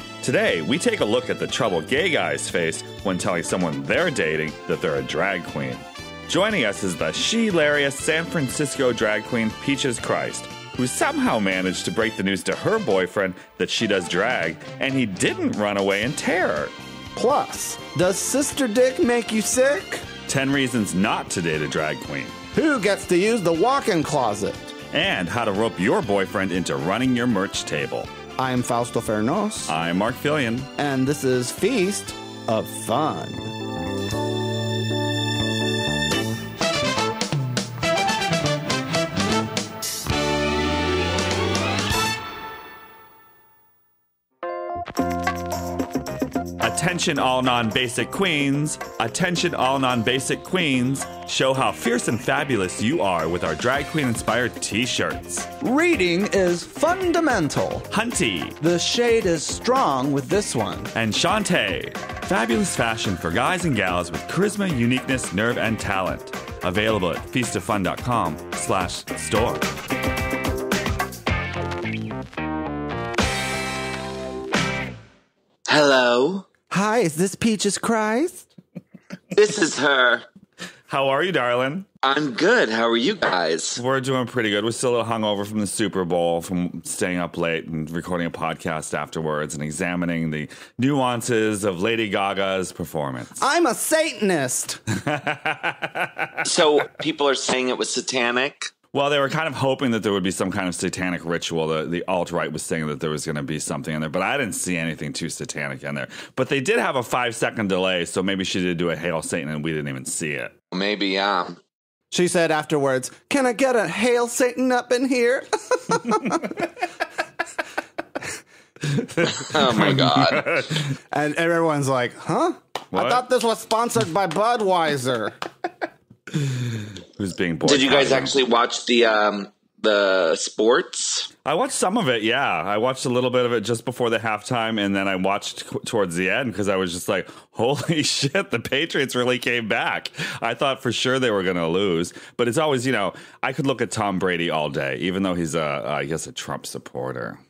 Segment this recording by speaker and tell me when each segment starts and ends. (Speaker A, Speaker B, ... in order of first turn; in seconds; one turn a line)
Speaker A: 0.2-16.7
Speaker B: 17.1-20.1
Speaker A: 20.3-22.4
Speaker B: 22.5-24.8
Speaker A: 24.9-28.1
Speaker B: 28.4-29.7
Speaker A: 29.7-30.7
Speaker B: 30.8-33.5
Speaker A: 46.6-55.5
Speaker B: 55.6-57.9
Speaker A: 57.9-58.6
Speaker B: 58.6-60.9
Speaker A: 60.9-69.7
Speaker C: 75.7-76.4
Speaker B: 76.7-78.5
Speaker C: 79.3-80.2
Speaker A: 80.9-81.8
Speaker C: 82.0-83.8
Speaker A: 83.8-93.4
Speaker B: 93.4-94.8
Speaker A: 94.9-96.8
Speaker C: 96.4-98.7
Speaker A: 98.9-110.5
Speaker C: 110.7-111.6
Speaker B: 112.1-116.6
Speaker A: 118.9-120.9
Speaker C: 119.3-120.4
Speaker B: 121.1-125.3
Speaker A: 122.9-123.2
Speaker A: 126.4-128.4
Speaker C: 127.7-131.3
Speaker A: 131.4-147.4